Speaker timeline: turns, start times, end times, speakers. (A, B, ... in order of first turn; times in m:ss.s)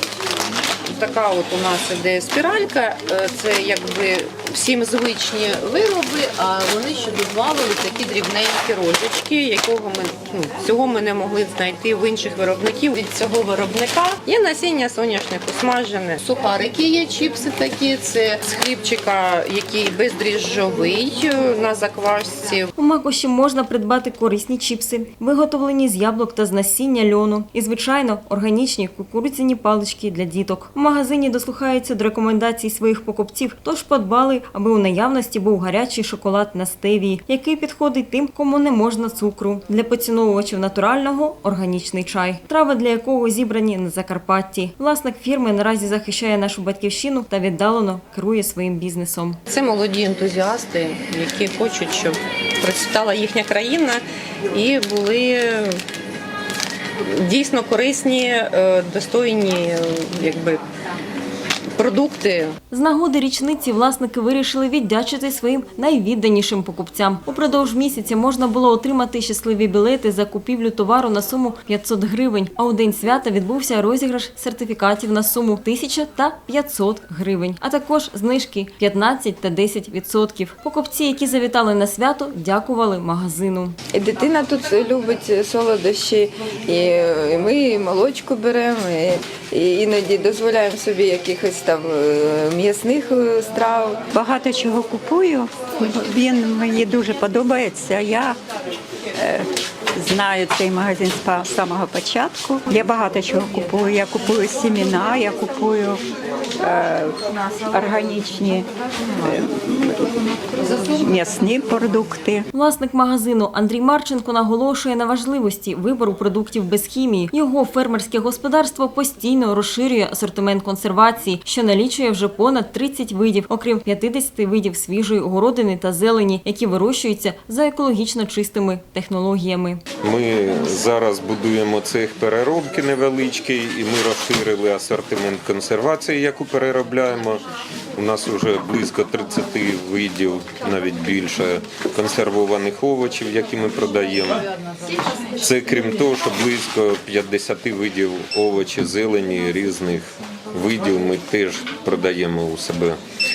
0:00.8-0:22.7 A
0:22.8-0:49.4 B
0:49.5-0:55.8 A
0:57.0-1:00.6 A
1:01.8-1:02.6 A
1:02.7-1:23.8 B
1:23.9-1:34.0 C
1:34.1-1:38.4 D
1:39.2-1:46.0 D
1:46.6-1:52.5 D
1:52.5-2:09.8 B
2:10.0-2:17.4 E
2:18.0-2:24.4 E
2:25.4-2:33.0 E